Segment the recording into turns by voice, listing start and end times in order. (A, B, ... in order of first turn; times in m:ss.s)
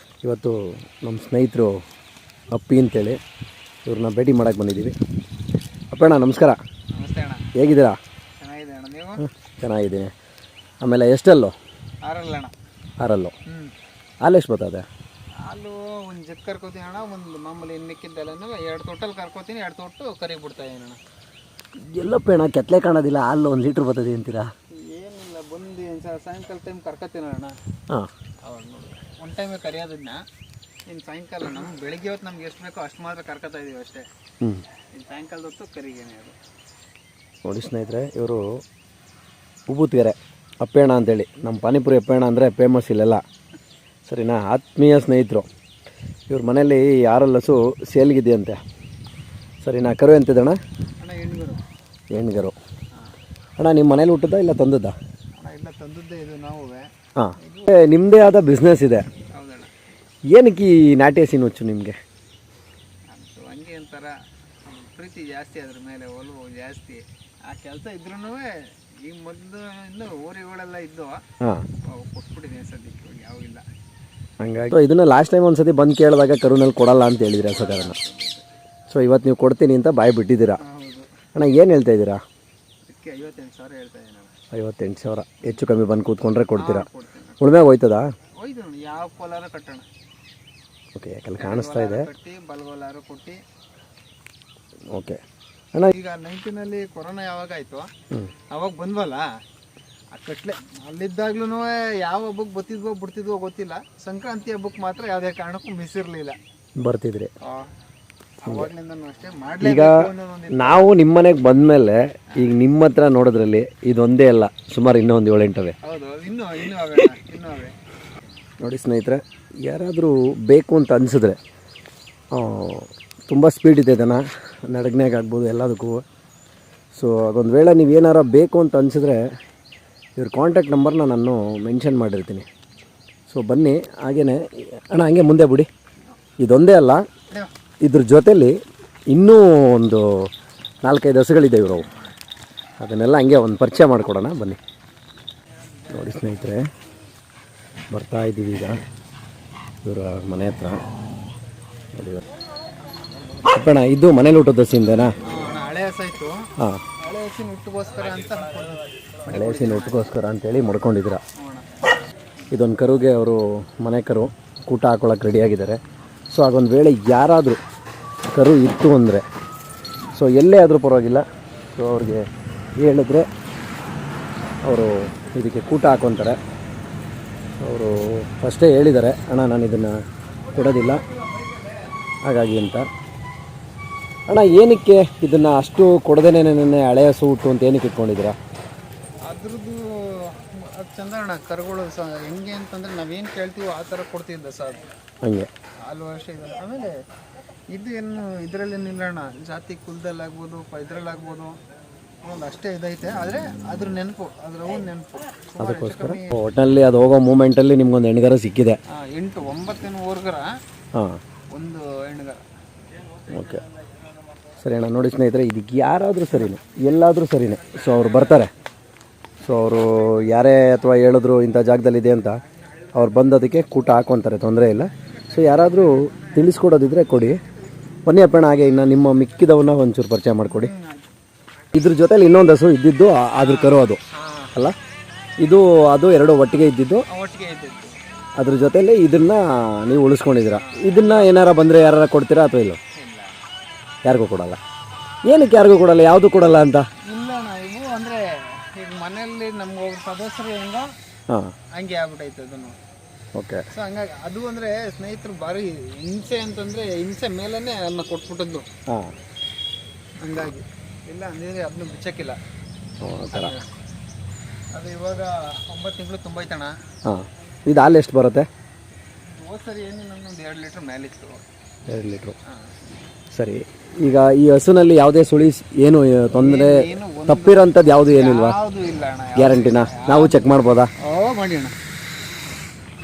0:00.2-0:01.7 A
0:02.5-0:03.2 A
0:03.8-0:04.9 A
0:05.9-0:06.6 A
0:06.9-0:07.5 B
0:07.6-0:08.0 A
0:08.4-0:09.2 B
0:09.4-0:10.1 A
0:10.8-0:11.5 A
0:12.0-0:12.5 B
0:13.0-0:13.3 A
0:13.5-0:13.7 B
0:14.2-0:14.8 A
0:15.4-0:21.0 B
0:21.8-0:24.5 A
0:24.7-0:27.6 B
0:28.4-0:30.2 B
0:30.9-0:34.1 B
0:34.9-0:36.4 B
0:37.4-0:38.4 A
0:39.7-0:43.2 A
0:44.0-0:45.4 A
0:46.3-0:48.6 A
0:49.6-0:50.6 A
0:51.0-0:51.6 B
0:52.1-0:52.5 A
0:53.6-0:54.9 A
0:55.4-0:57.8 B
0:57.2-0:59.0 A
0:59.3-0:59.7 B
1:00.3-1:02.0 A
1:03.1-1:11.2 B
1:11.4-1:11.7 A
1:11.8-1:13.6 B
1:14.4-1:18.0 A
1:17.4-1:18.4 B
1:18.9-1:20.6 A
1:20.6-1:21.1 B
1:21.3-1:22.2 A
1:22.8-1:24.3 B
1:24.5-1:26.8 A
1:26.5-1:27.4 B
1:27.4-1:28.0 A
1:28.4-1:29.9 B
1:30.9-1:32.1 A
1:31.4-1:33.4 B
1:34.9-1:35.2 A
1:35.9-1:37.9 B
1:38.5-1:39.2 B
1:40.1-1:46.4 B
1:46.8-1:47.3 A
1:47.4-1:47.7 B
1:48.4-1:50.9 B
1:49.6-1:50.0 A
1:50.5-1:55.7 A
1:55.8-1:57.7 B
1:58.6-2:01.4 A
2:02.3-2:06.0 A
2:06.9-2:09.2 A
2:10.2-2:12.4 A
2:13.3-2:15.7 A
2:16.4-2:17.0 A
2:17.8-2:18.6 A
2:19.1-2:20.3 A
2:20.8-2:21.9 A
2:22.8-2:24.6 A
2:25.9-2:26.6 A
2:27.9-2:28.8 A
2:29.8-2:30.8 A
2:31.9-2:32.2 A
2:33.5-2:35.2 A
2:35.2-2:36.4 B
2:37.0-2:40.1 B
2:39.3-2:41.2 A
2:41.4-2:41.7 B
2:42.5-2:45.8 A
2:46.3-2:47.6 A
2:48.3-2:49.2 A
2:50.1-2:51.2 A
2:51.8-2:52.2 A
2:52.8-2:53.3 A
2:54.6-2:56.4 A
2:57.6-3:00.0 A
3:00.5-3:01.0 A
3:02.2-3:02.8 A
3:04.3-3:08.3 A
3:09.2-3:14.8 B
3:15.2-3:15.5 A
3:15.8-3:16.9 B
3:17.7-3:21.6 B
3:22.2-3:26.4 B
3:25.6-3:28.8 A
3:28.9-3:30.5 B
3:31.5-3:32.4 B
3:33.3-3:33.6 A
3:34.6-3:38.5 A
3:37.9-3:38.4 B
3:39.4-3:42.4 A
3:42.9-3:47.4 A
3:45.3-3:46.3 B
3:48.0-3:50.7 A
3:50.4-3:51.1 B
3:51.7-3:54.0 A
3:53.3-3:54.5 B
3:55.4-3:57.0 A
3:57.1-3:58.0 B
3:58.4-4:02.8 A
4:00.6-4:01.3 B
4:02.9-4:03.4 B
4:04.0-4:04.6 A
4:05.2-4:06.9 A
4:07.0-4:10.9 B
4:11.7-4:12.8 B
4:13.4-4:13.6 A
4:13.7-4:18.7 B
4:18.9-4:19.1 A
4:20.2-4:22.4 B
4:23.0-4:23.6 A
4:23.3-4:23.6 B
4:24.7-4:26.7 B
4:27.0-4:28.5 A
4:29.2-4:31.4 B
4:31.9-4:32.3 A
4:33.3-4:38.6 A
4:36.3-4:40.4 B
4:39.4-4:40.9 A
4:41.0-4:41.7 B